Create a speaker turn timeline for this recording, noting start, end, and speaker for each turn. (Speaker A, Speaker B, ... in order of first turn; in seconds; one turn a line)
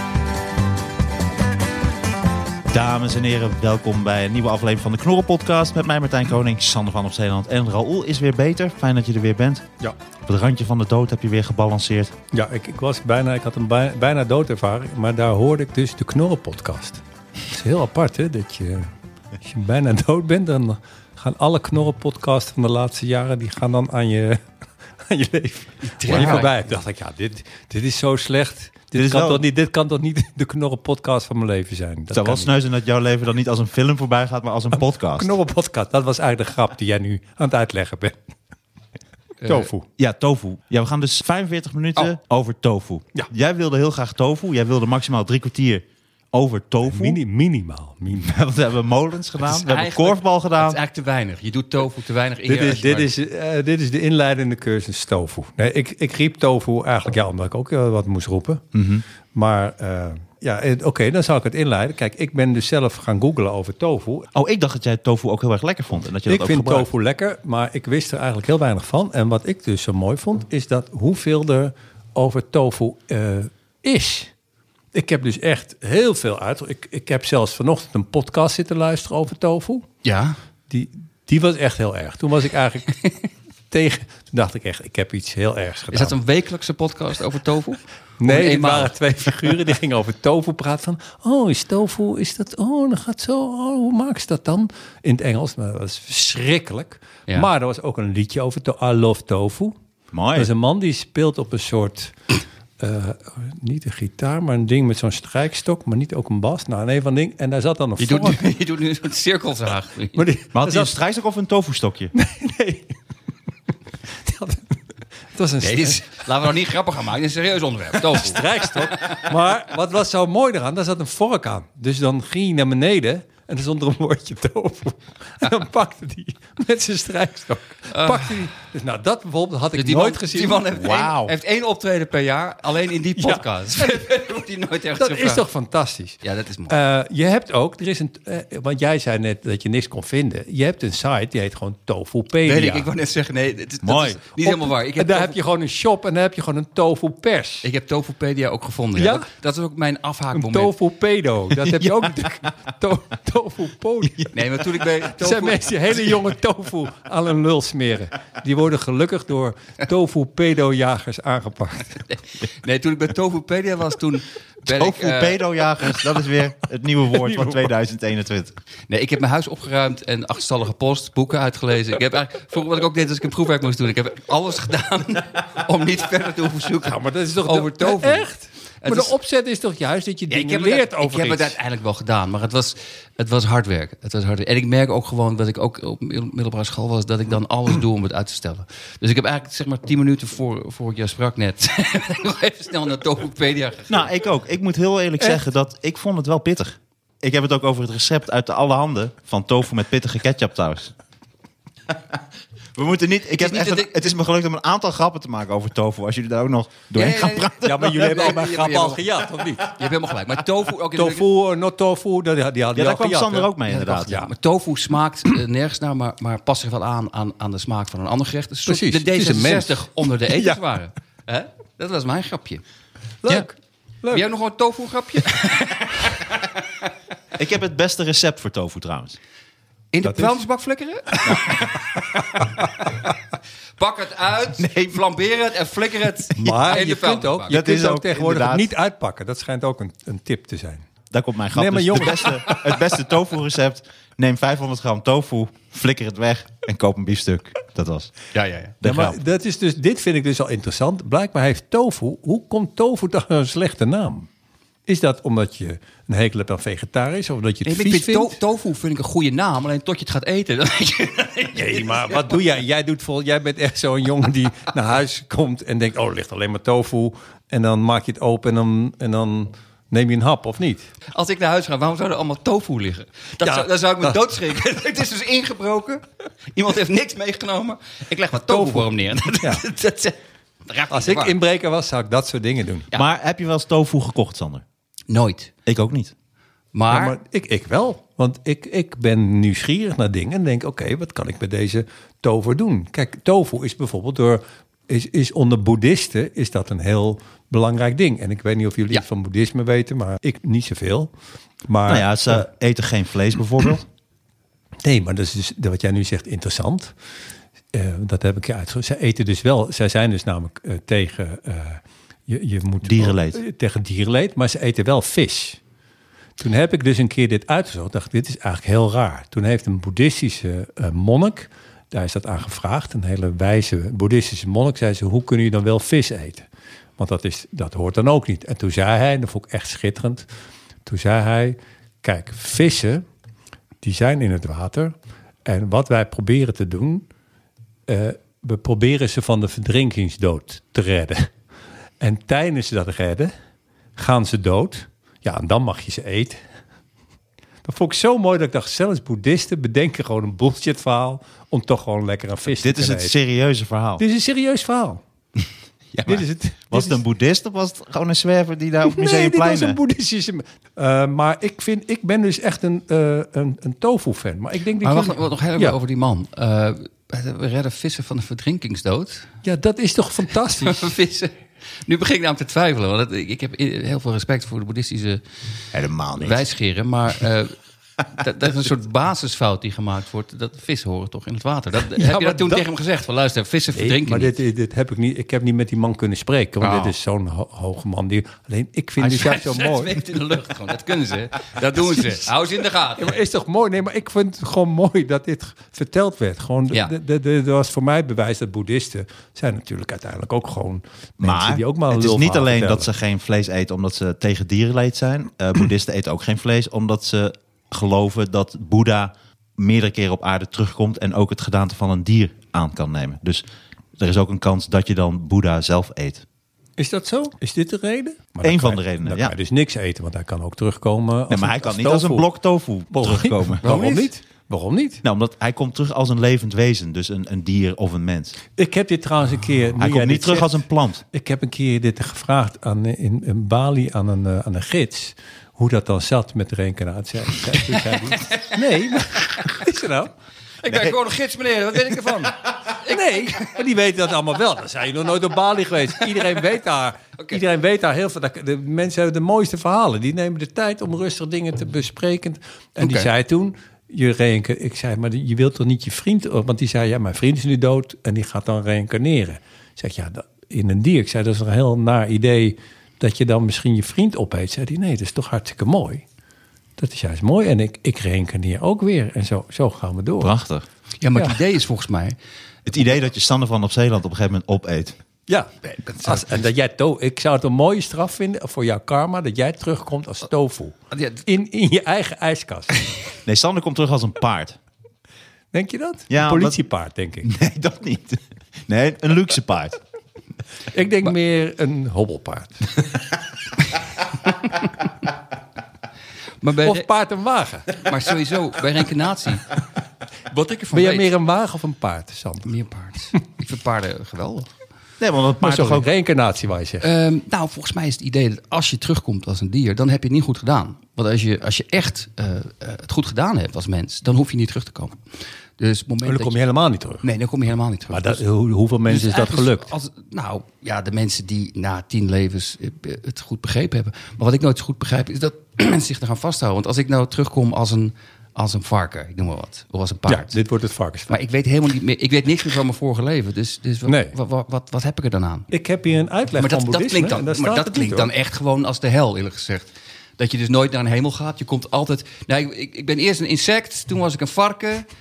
Speaker A: 2.7-9.7
Speaker A: 10.3-12.2
Speaker B: 12.3-18.9
Speaker B: 19.4-24.4
Speaker B: 25.0-32.5
Speaker C: 25.8-26.5
Speaker A: 26.1-26.4
Speaker A: 29.0-29.4
Speaker A: 32.1-35.3
Speaker B: 34.8-38.2
Speaker C: 39.4-39.7
Speaker B: 39.5-39.9
Speaker A: 40.0-47.2
Speaker B: 46.9-48.4
Speaker A: 48.1-50.8
Speaker C: 49.5-53.1
Speaker B: 52.5-58.6
Speaker A: 58.7-59.0
Speaker B: 59.3-64.3
Speaker A: 64.3-66.9
Speaker B: 66.3-74.3
Speaker B: 74.9-79.9
Speaker C: 80.0-80.4
Speaker B: 80.7-83.1
Speaker B: 83.7-86.2
Speaker C: 85.9-89.5
Speaker B: 88.2-99.7
Speaker A: 100.1-100.5
Speaker B: 100.3-102.2
Speaker B: 102.8-108.4
Speaker C: 108.0-110.2
Speaker B: 110.2-110.9
Speaker A: 110.5-112.1
Speaker B: 112.1-112.9
Speaker B: 114.2-114.8
Speaker B: 115.3-116.2
Speaker C: 115.6-119.3
Speaker B: 118.0-130.7
Speaker C: 127.9-128.4
Speaker C: 129.8-135.4
Speaker A: 130.8-131.3
Speaker B: 133.2-134.3
Speaker B: 135.0-142.9
Speaker C: 136.2-136.8
Speaker C: 142.4-145.4
Speaker A: 143.8-144.2
Speaker B: 144.4-147.7
Speaker C: 147.6-150.7
Speaker B: 149.0-149.3
Speaker B: 150.3-154.3
Speaker C: 154.3-156.2
Speaker B: 155.0-162.1
Speaker C: 162.1-165.4
Speaker A: 164.7-168.6
Speaker B: 167.2-167.6
Speaker C: 168.9-178.3
Speaker B: 176.8-181.6
Speaker C: 178.8-179.1
Speaker C: 180.3-194.0
Speaker A: 193.9-200.9
Speaker A: 202.8-208.3
Speaker C: 203.3-204.1
Speaker C: 206.9-209.0
Speaker B: 207.6-209.8
Speaker C: 209.6-211.3
Speaker B: 210.9-213.5
Speaker A: 212.8-214.2
Speaker C: 213.7-222.6
Speaker B: 218.7-220.6
Speaker B: 223.2-224.3
Speaker C: 224.1-226.7
Speaker A: 227.4-229.2
Speaker C: 229.9-231.8
Speaker B: 230.0-230.4
Speaker B: 231.1-231.6
Speaker C: 232.3-233.0
Speaker C: 233.8-237.5
Speaker A: 234.6-235.0
Speaker B: 236.3-240.9
Speaker A: 237.5-238.7
Speaker A: 241.1-248.2
Speaker B: 241.5-242.6
Speaker C: 248.3-248.8
Speaker A: 248.8-249.2
Speaker B: 248.8-254.3
Speaker B: 254.9-258.4
Speaker C: 257.6-262.4
Speaker B: 261.6-270.9
Speaker C: 271.1-281.4
Speaker B: 273.4-274.2
Speaker B: 278.5-279.6
Speaker B: 280.9-282.9
Speaker A: 282.9-284.6
Speaker C: 285.1-285.5
Speaker A: 285.7-286.1
Speaker C: 286.7-287.2
Speaker B: 286.9-301.1
Speaker B: 301.7-302.4
Speaker A: 301.9-303.9
Speaker B: 304.8-306.9
Speaker B: 307.7-315.6
Speaker A: 312.8-313.4
Speaker B: 316.4-326.5
Speaker B: 327.0-330.3
Speaker B: 330.9-333.0
Speaker B: 333.8-334.9
Speaker B: 335.4-337.1
Speaker B: 337.9-341.3
Speaker B: 342.0-343.3
Speaker B: 344.0-346.4
Speaker B: 347.6-353.1
Speaker A: 352.6-354.0
Speaker B: 354.0-355.0
Speaker A: 355.9-359.8
Speaker B: 356.1-357.0
Speaker B: 358.8-365.8
Speaker C: 364.8-369.3
Speaker B: 369.4-370.9
Speaker C: 370.6-371.4
Speaker C: 371.9-375.2
Speaker A: 375.7-376.5
Speaker C: 376.2-377.6
Speaker C: 378.1-384.3
Speaker B: 381.9-382.6
Speaker B: 383.7-390.0
Speaker C: 386.6-386.9
Speaker C: 389.0-393.2
Speaker B: 391.8-392.3
Speaker B: 393.0-402.9
Speaker A: 401.2-413.4
Speaker A: 414.0-416.2
Speaker B: 416.8-422.3
Speaker A: 418.4-419.3
Speaker A: 421.3-423.6
Speaker B: 422.9-425.0
Speaker C: 423.6-424.1
Speaker A: 425.0-428.4
Speaker B: 428.6-440.1
Speaker A: 429.8-431.0
Speaker C: 437.7-438.6
Speaker C: 440.6-443.5
Speaker B: 442.8-466.0
Speaker C: 452.8-453.1
Speaker B: 466.8-470.4
Speaker A: 470.2-470.6
Speaker C: 471.0-472.2
Speaker A: 472.7-475.0
Speaker B: 475.3-482.8
Speaker C: 475.8-476.2
Speaker C: 480.9-481.2
Speaker A: 483.2-484.6
Speaker B: 485.5-487.3
Speaker A: 486.1-486.6
Speaker A: 487.2-489.8
Speaker B: 490.7-492.8
Speaker C: 496.4-496.9
Speaker B: 496.6-497.8
Speaker C: 497.7-499.5
Speaker C: 500.3-501.1
Speaker B: 500.7-502.5
Speaker C: 502.4-504.5
Speaker A: 505.0-505.9
Speaker B: 505.4-506.9
Speaker C: 506.8-515.0
Speaker C: 515.6-516.4
Speaker B: 516.0-517.1
Speaker C: 517.0-518.2
Speaker B: 517.9-519.7
Speaker C: 518.9-530.4
Speaker B: 530.1-531.2
Speaker C: 531.1-535.5
Speaker B: 533.9-534.1
Speaker B: 535.5-538.1
Speaker C: 536.4-544.9